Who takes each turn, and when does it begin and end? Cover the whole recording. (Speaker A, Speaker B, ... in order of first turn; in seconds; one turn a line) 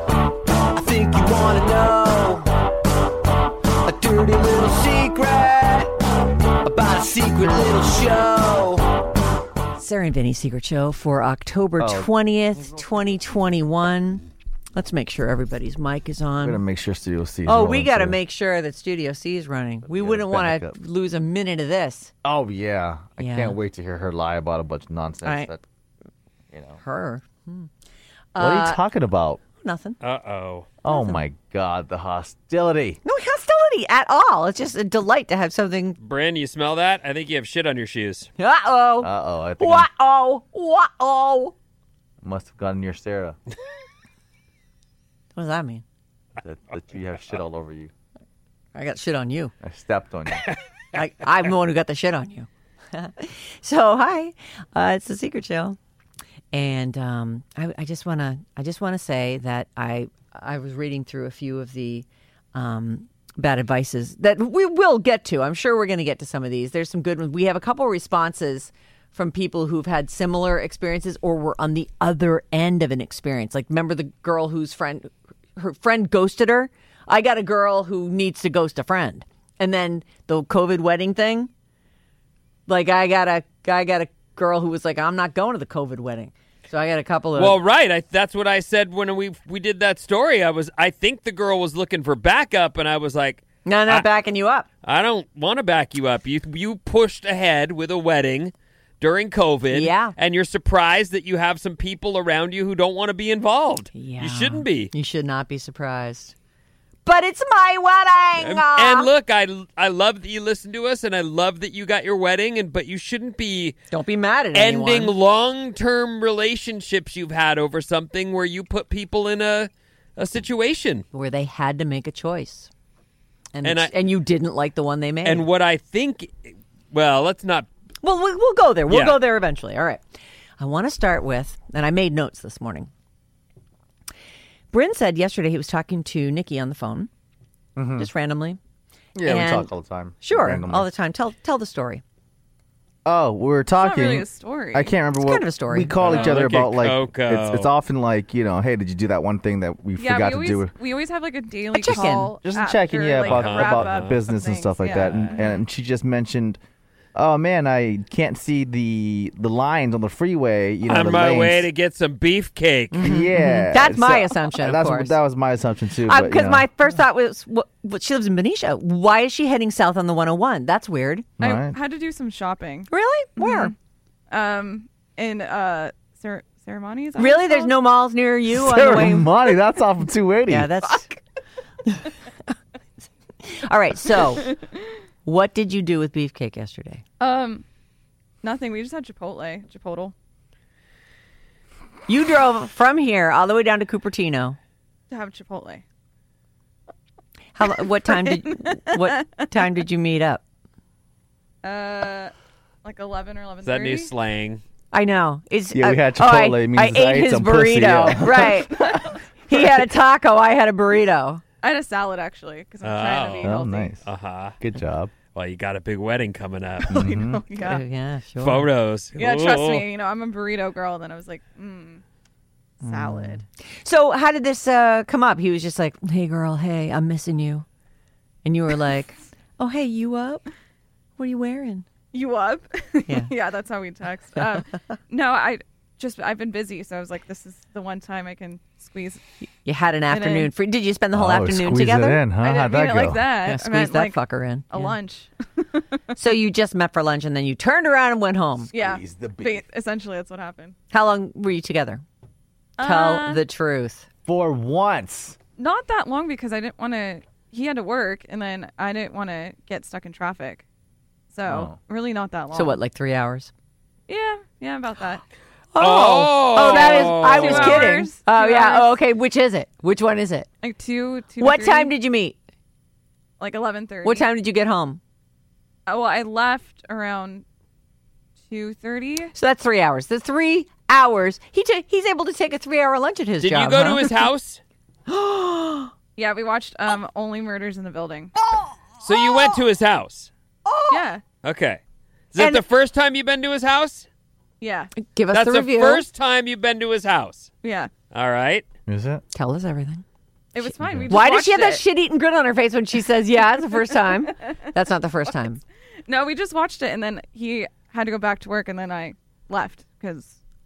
Speaker A: 0.8-2.5
Speaker A: 3.8-5.9
Speaker A: 6.6-8.8
Speaker B: 9.7-16.6
Speaker C: 11.8-12.1
Speaker C: 16.4-18.2
Speaker B: 17.4-22.1
Speaker C: 19.8-20.7
Speaker C: 22.2-25.6
Speaker B: 23.2-23.6
Speaker B: 25.2-25.5
Speaker C: 26.5-26.8
Speaker B: 26.8-27.7
Speaker B: 28.3-28.8
Speaker C: 28.4-29.4
Speaker B: 29.6-30.0
Speaker D: 30.0-30.7
Speaker C: 30.8-33.0
Speaker B: 30.9-31.2
Speaker B: 33.0-36.0
Speaker D: 36.0-38.3
Speaker B: 38.4-41.5
Speaker C: 39.0-39.9
Speaker C: 42.2-43.4
Speaker B: 45.3-45.8
Speaker C: 46.4-47.9
Speaker B: 48.7-49.5
Speaker C: 49.6-50.5
Speaker B: 50.9-55.8
Speaker B: 56.5-81.5
Speaker B: 82.7-87.6
Speaker D: 87.3-94.1
Speaker B: 93.6-94.7
Speaker D: 94.8-104.9
Speaker B: 99.7-100.1
Speaker B: 103.9-106.3
Speaker B: 107.0-109.1
Speaker D: 108.4-113.8
Speaker B: 113.9-115.1
Speaker D: 114.5-121.0
Speaker B: 121.1-122.7
Speaker B: 123.5-125.5
Speaker D: 123.6-123.9
Speaker D: 125.2-127.7
Speaker B: 128.0-130.0
Speaker D: 128.9-129.2
Speaker B: 130.6-132.9
Speaker B: 134.7-137.1
Speaker C: 137.8-138.1
Speaker B: 138.0-138.6
Speaker C: 139.2-140.9
Speaker B: 139.2-139.7
Speaker B: 140.2-142.0
Speaker C: 143.0-150.7
Speaker E: 143.8-144.9
Speaker B: 145.1-146.5
Speaker D: 146.0-147.7
Speaker E: 150.0-155.6
Speaker B: 151.7-152.3
Speaker C: 151.8-156.6
Speaker D: 153.2-154.2
Speaker D: 154.9-155.2
Speaker C: 157.1-161.7
Speaker D: 160.9-163.2
Speaker B: 162.9-165.1
Speaker C: 163.0-166.7
Speaker B: 166.0-171.3
Speaker C: 171.4-171.8
Speaker E: 171.4-173.7
Speaker B: 172.9-173.7
Speaker E: 174.3-177.7
Speaker B: 177.2-179.4
Speaker C: 178.5-180.7
Speaker B: 180.5-181.2
Speaker B: 181.8-182.1
Speaker B: 183.4-184.6
Speaker B: 185.2-187.0
Speaker E: 187.2-187.6
Speaker E: 188.4-190.1
Speaker B: 192.1-194.6
Speaker E: 195.1-195.8
Speaker B: 197.5-200.4
Speaker E: 198.1-199.5
Speaker E: 201.6-202.3
Speaker E: 202.8-204.1
Speaker D: 203.6-204.6
Speaker B: 204.9-211.4
Speaker C: 205.7-208.8
Speaker E: 211.6-213.9
Speaker D: 212.8-214.6
Speaker C: 213.4-214.0
Speaker C: 214.6-215.1
Speaker D: 215.3-216.9
Speaker E: 216.8-217.8
Speaker C: 216.9-217.4
Speaker B: 217.5-218.7
Speaker D: 218.4-219.9
Speaker E: 219.2-222.0
Speaker E: 222.8-223.4
Speaker B: 222.8-227.7
Speaker B: 228.4-230.5
Speaker B: 231.2-231.9
Speaker E: 232.1-239.2
Speaker B: 239.6-242.3
Speaker E: 240.1-240.5
Speaker C: 241.1-243.2
Speaker E: 242.3-244.2
Speaker B: 243.4-245.0
Speaker E: 244.7-245.8
Speaker B: 246.2-248.7
Speaker C: 248.7-249.6
Speaker E: 248.7-250.7
Speaker B: 250.9-252.0
Speaker E: 252.8-253.4
Speaker B: 252.8-254.1
Speaker C: 254.2-255.4
Speaker E: 255.6-260.6
Speaker E: 261.3-262.8
Speaker C: 261.4-261.8
Speaker B: 262.5-263.5
Speaker E: 264.1-265.2
Speaker B: 265.7-270.5
Speaker D: 265.8-267.9
Speaker E: 266.5-268.9
Speaker E: 270.6-271.9
Speaker B: 271.4-272.4
Speaker E: 273.4-274.3
Speaker B: 274.0-275.0
Speaker E: 275.9-277.4
Speaker E: 278.5-279.3
Speaker B: 279.3-284.3
Speaker D: 283.4-284.6
Speaker B: 285.1-285.9
Speaker E: 286.1-288.3
Speaker B: 288.4-289.6
Speaker D: 289.0-290.3
Speaker B: 290.6-291.1
Speaker E: 290.9-291.2
Speaker D: 291.4-291.8
Speaker D: 292.3-294.1
Speaker B: 292.4-292.6
Speaker E: 294.6-294.9
Speaker B: 295.0-296.0
Speaker D: 295.3-297.5
Speaker E: 297.6-297.9
Speaker D: 298.1-298.6
Speaker C: 298.9-299.2
Speaker B: 299.3-300.0
Speaker E: 300.5-301.8
Speaker B: 300.6-305.6
Speaker C: 300.8-301.2
Speaker E: 306.1-310.4